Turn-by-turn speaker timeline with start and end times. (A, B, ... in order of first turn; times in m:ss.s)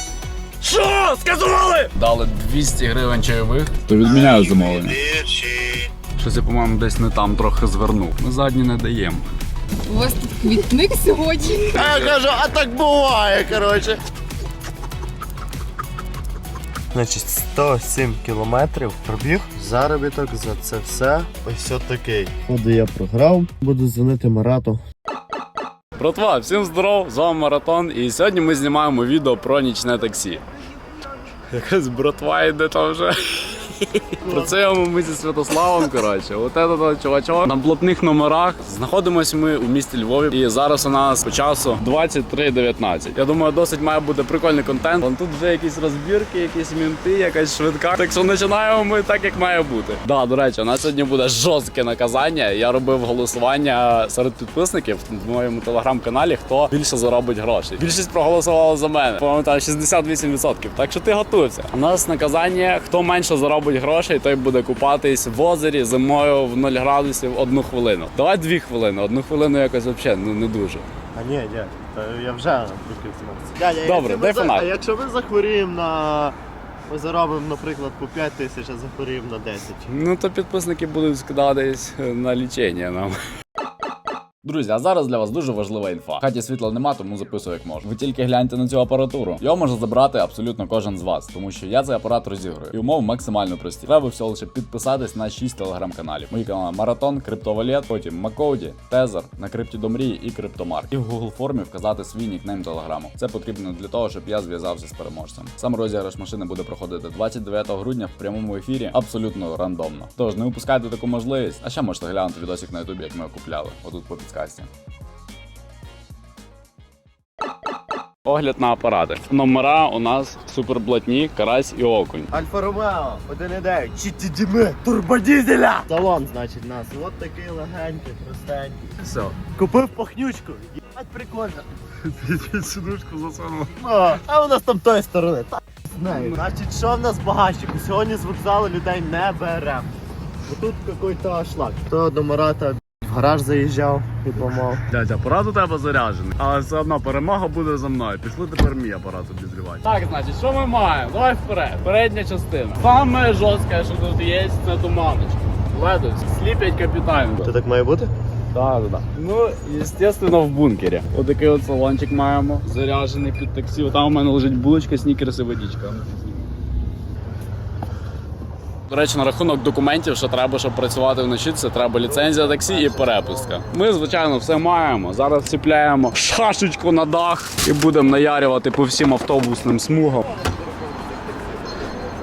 0:00.6-0:05.0 A
0:04.1-0:05.9 B
0:06.2-0:09.2 A
0:09.9-0:11.9 C
0:11.7-0:14.0 B
0:16.9-0:24.8 B
0:26.0-0:30.4 A
0:31.5-1:10.9 A
0:34.2-0:34.6 B
1:11.1-1:16.4 B
1:13.8-1:14.7 A
1:16.9-1:19.9 B
1:19.9-1:23.2 A
1:24.4-1:54.7 A
1:58.3-2:02.3 A
2:02.3-2:11.7 B
2:09.0-2:09.4 A
2:12.0-2:13.8 A
2:13.8-2:20.0 B
2:20.5-2:24.8 B
2:24.9-2:37.5 A
2:37.4-2:38.1 B
2:38.5-2:46.4 A
2:48.9-3:00.3 A
2:52.0-2:53.7 B